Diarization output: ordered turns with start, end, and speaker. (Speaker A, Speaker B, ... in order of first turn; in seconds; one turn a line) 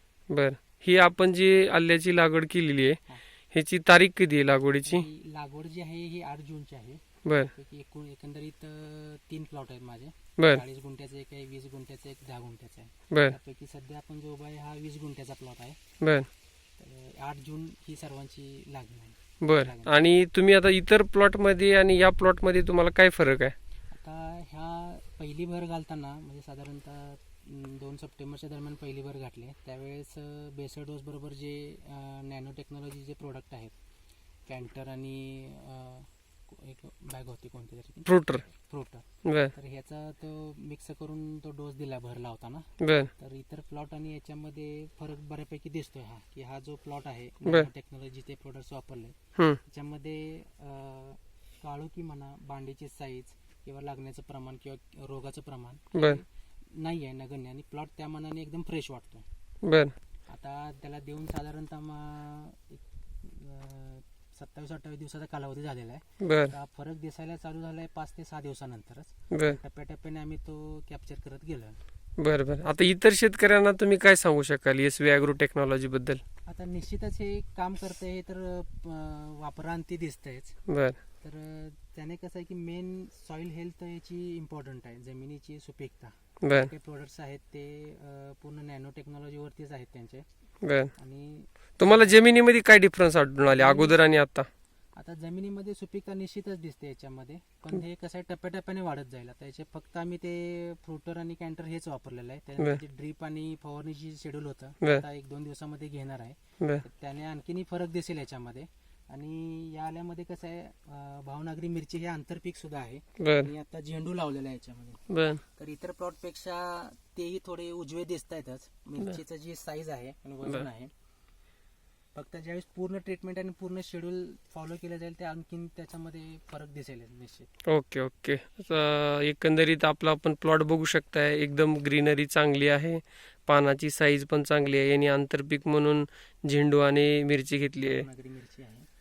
Speaker A: 0.3-5.1
Speaker B: 4.8-20.1
Speaker A: 7.2-7.5
Speaker A: 16.0-16.3
Speaker A: 19.4-23.6
Speaker B: 23.9-33.7
Speaker B: 34.5-59.3
Speaker A: 38.1-38.5
Speaker A: 39.2-39.5
Speaker A: 42.8-43.1
Speaker A: 47.4-47.7
Speaker A: 55.9-56.2
Speaker A: 59.6-59.9
Speaker B: 60.3-71.8
Speaker A: 66.2-66.5
Speaker A: 69.3-69.6
Speaker A: 72.2-76.2
Speaker B: 76.5-90.3
Speaker A: 80.7-81.0
Speaker A: 86.4-86.7
Speaker A: 90.6-90.9
Speaker B: 90.9-92.2
Speaker A: 91.8-94.5
Speaker B: 93.6-94.0
Speaker B: 94.9-120.9
Speaker A: 113.2-113.5
Speaker A: 115.1-115.4
Speaker B: 122.1-127.5
Speaker A: 127.7-138.1
Speaker B: 137.8-138.9